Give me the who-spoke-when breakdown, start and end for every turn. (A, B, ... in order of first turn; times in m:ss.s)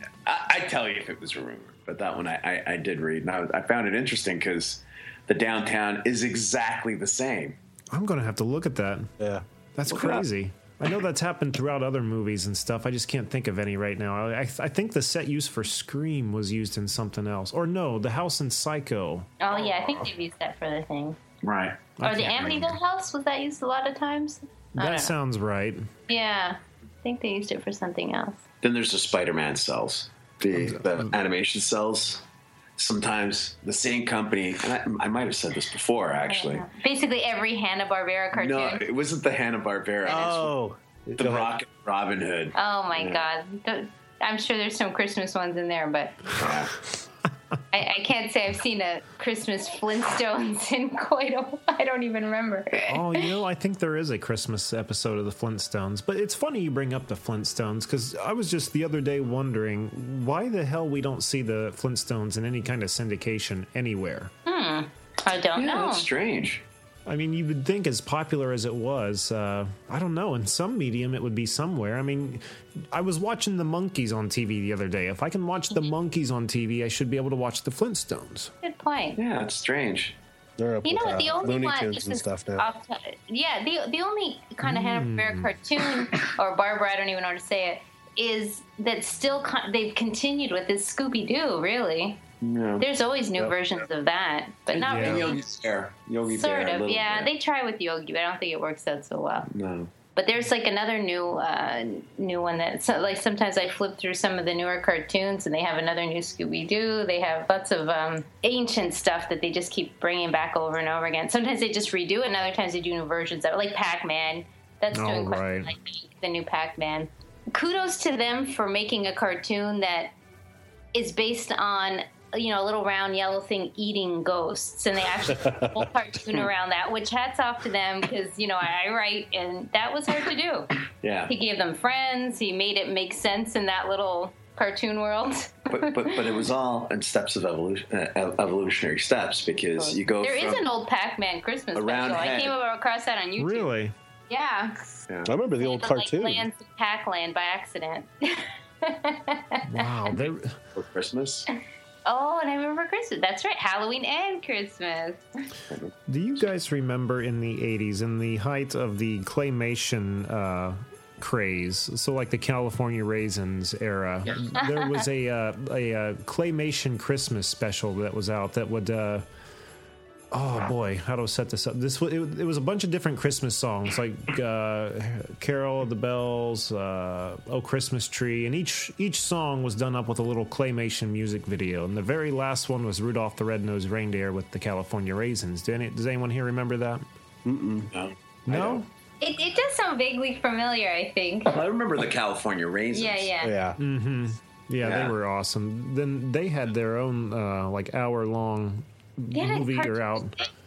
0:00.3-0:07.6 A
0:07.9-0:09.1 B
0:09.8-0:19.3 B
0:09.9-0:10.2 A
0:19.4-0:21.2 C
0:19.5-0:20.1 A
0:21.4-0:21.9 A
0:22.0-0:22.8 B
0:22.0-0:25.1 C
0:24.8-0:25.9 B
0:26.1-0:28.4 C
0:28.6-0:32.2 A
0:30.6-0:31.1 B
0:32.8-0:36.7 A
0:36.3-0:38.8 C
0:38.3-0:40.6 A
0:40.1-0:41.5 D
0:41.2-0:43.2 A
0:42.6-0:46.4 C
0:46.4-0:46.7 A
0:47.7-0:53.2 C
0:52.9-1:04.3 B
1:04.5-1:06.1 C
1:05.6-1:06.6 A
1:07.1-1:18.5 B
1:18.6-1:19.2 C
1:19.2-1:20.2 A
1:20.6-1:22.7 D
1:20.8-1:32.2 C
1:24.6-1:25.5 B
1:32.4-1:32.9 A
1:32.8-1:35.5 C
1:34.7-1:37.3 A
1:34.9-1:35.3 B
1:36.3-1:39.5 C
1:39.5-1:39.9 A
1:40.2-2:00.1 C
1:54.9-1:55.7 B
2:00.9-2:10.7 C
2:05.4-2:05.9 D
2:11.0-2:11.3 A
2:11.3-2:16.2 C
2:15.7-2:20.7 A
2:19.8-2:23.7 C
2:21.8-2:22.6 A
2:23.4-2:23.9 B
2:24.3-2:24.9 C
2:25.2-2:26.5 D
2:25.6-2:30.1 C
2:29.7-2:30.6 B
2:30.8-2:31.5 A
2:32.0-2:35.2 C
2:36.1-2:49.2 B
2:44.6-2:45.0 C
2:50.3-3:07.0 B
3:07.4-3:07.9 D
3:07.9-3:08.8 A
3:08.5-3:08.8 B
3:09.2-3:11.5 C
3:11.5-3:13.3 A
3:12.9-3:13.5 C
3:13.4-3:13.8 D
3:13.8-3:20.4 B
3:14.8-3:15.1 A
3:19.3-3:20.3 C